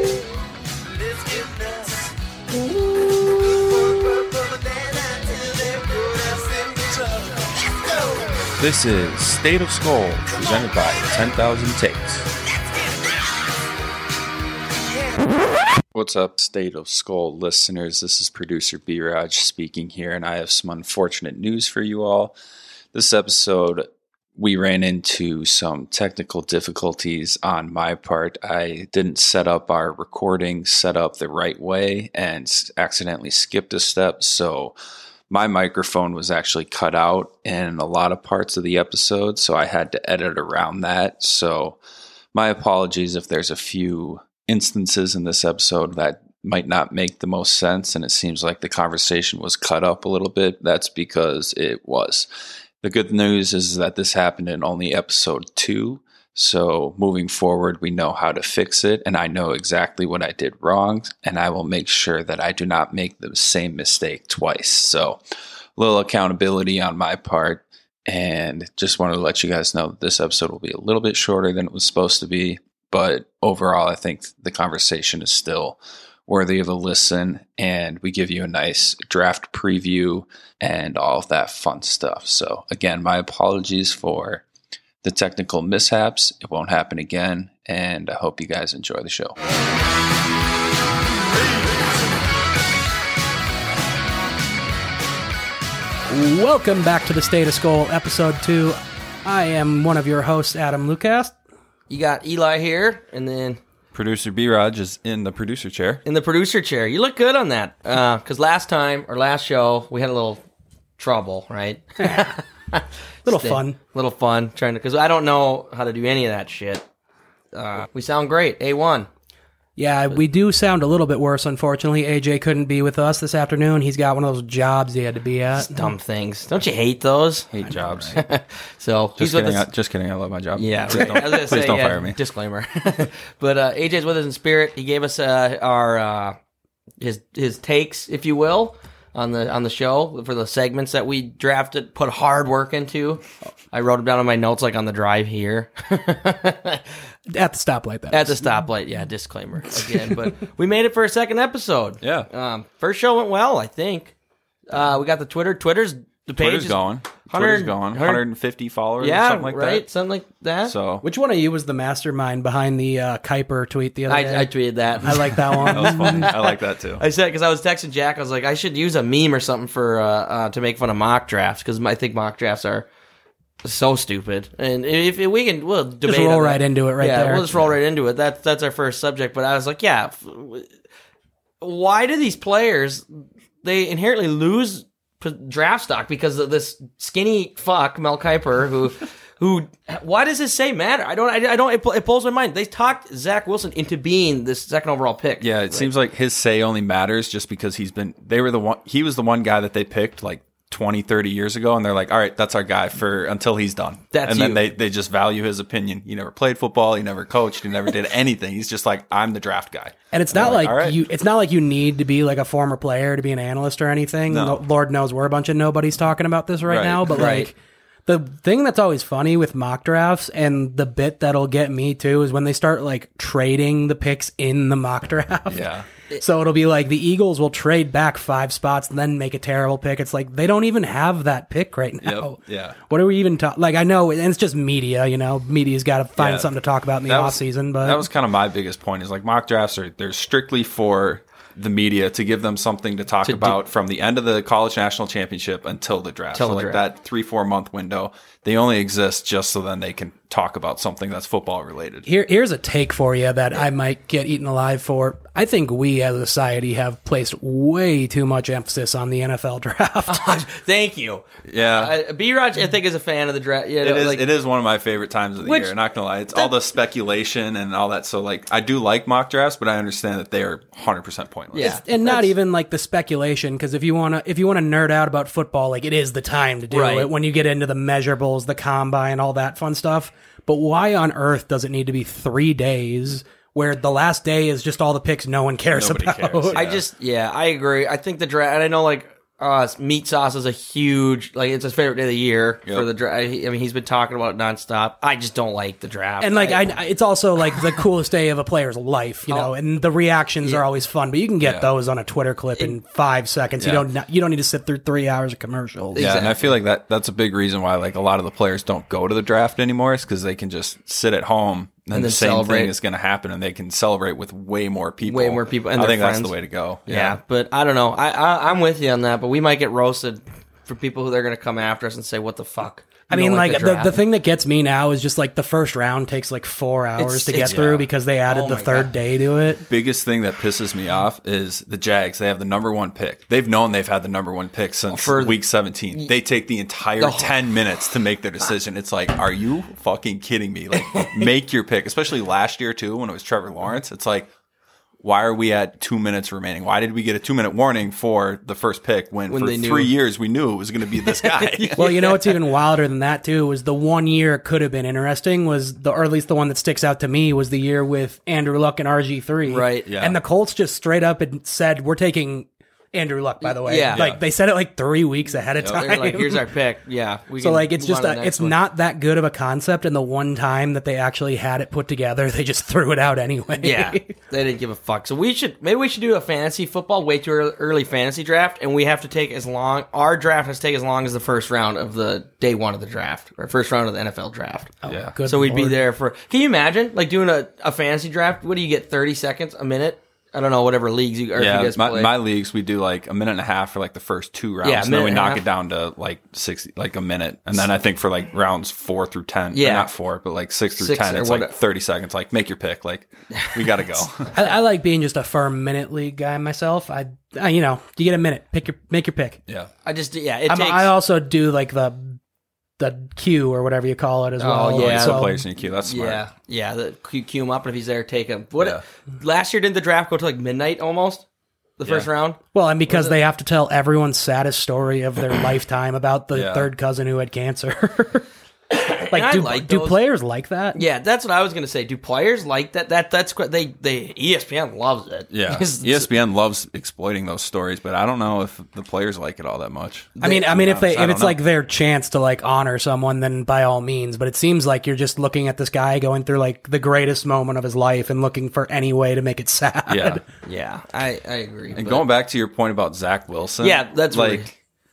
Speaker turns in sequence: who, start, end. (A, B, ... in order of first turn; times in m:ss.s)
0:01.0-0:01.7 A
0:05.0-0:07.2 A
0:08.6-0:12.3 B
0:15.9-0:22.4 B
0:22.9-0:34.8 B
0:35.3-0:41.8 B
0:42.3-0:52.3 B
0:52.8-1:05.2 B
1:05.8-1:24.4 B
1:25.0-1:29.4 B
1:36.1-1:41.4 C
1:41.9-1:43.6 D
1:43.9-1:46.0 B
1:46.0-1:50.4 D
1:51.0-1:56.8 D
1:52.0-1:52.4 C
1:53.2-1:53.8 C
1:57.5-1:59.1 D
1:59.8-2:05.9 C
2:05.6-2:07.5 D
2:07.5-2:08.2 B
2:08.1-2:09.7 D
2:09.2-2:12.2 B
2:10.6-2:16.4 D
2:17.0-2:26.8 D
2:27.3-2:28.6 C
2:28.1-2:34.1 D
2:29.8-2:30.1 C
2:32.0-2:32.3 B
2:34.7-2:38.2 D
2:36.4-2:39.8 B
2:39.0-2:40.7 D
2:40.7-2:41.0 B
2:41.0-2:46.3 C
2:44.1-2:52.9 D
2:45.7-2:47.0 B
2:53.6-3:00.7 D
2:56.1-2:57.4 C
3:01.6-3:03.1 D
3:03.6-3:15.9 D
3:15.4-3:31.0 B
3:24.1-3:24.6 D
3:30.1-3:37.6 C
3:34.3-3:34.6 B
3:36.6-3:37.4 B
3:37.1-3:37.5 D
3:38.1-3:45.7 C
3:45.5-3:45.9 B
3:46.2-3:58.0 C
3:52.0-3:52.8 B
3:56.2-3:56.5 B
3:57.0-4:12.1 B
4:03.2-4:03.6 D
4:06.3-4:06.8 D
4:12.1-4:20.4 C
4:20.1-4:24.3 D
4:21.4-4:21.9 B
4:23.8-4:31.8 B
4:25.4-4:25.7 D
4:31.5-4:32.3 D
4:31.6-4:46.6 C
4:36.7-4:37.1 D
4:45.7-4:46.8 B
4:46.5-4:56.7 D
4:56.2-5:06.1 C
5:01.4-5:01.7 B
5:03.6-5:03.9 B
5:06.0-5:06.5 D
5:06.0-5:17.2 B
5:11.9-5:12.7 D
5:15.1-5:16.3 D
5:16.9-5:24.0 D
5:23.1-5:29.6 C
5:27.0-5:27.7 D
5:27.4-5:27.9 B
5:28.3-5:28.9 D
5:29.7-5:44.3 B
5:34.9-5:35.4 D
5:37.0-5:37.3 D
5:40.8-5:41.2 D
5:45.0-5:51.8 B
5:49.3-5:49.9 D
5:51.0-5:52.4 D
5:51.8-6:06.5 C
5:59.5-5:59.9 D
5:59.9-6:00.2 B
6:03.4-6:04.1 D
6:03.9-6:04.2 B
6:05.6-6:08.6 D
6:07.4-6:14.1 C
6:13.6-6:32.1 D
6:24.8-6:25.8 C
6:24.9-6:25.2 B
6:31.4-6:44.4 B
6:34.6-6:35.4 D
6:39.5-6:39.9 D
6:40.8-6:41.5 D
6:44.3-6:49.4 C
6:49.8-6:50.9 D
6:50.5-6:52.2 C
6:52.8-6:55.4 C
6:54.4-6:55.3 D
6:54.8-6:56.2 B
6:55.8-7:01.2 D
7:01.8-7:03.2 D
7:02.5-7:08.3 C
7:06.3-7:06.7 B
7:08.7-7:10.0 D
7:09.1-7:10.8 C
7:10.7-7:16.1 D
7:15.3-7:21.4 B
7:20.2-7:20.6 D
7:20.2-7:30.2 C
7:29.9-7:30.2 B
7:30.4-7:32.1 D
7:31.7-7:34.5 B
7:33.6-7:34.5 D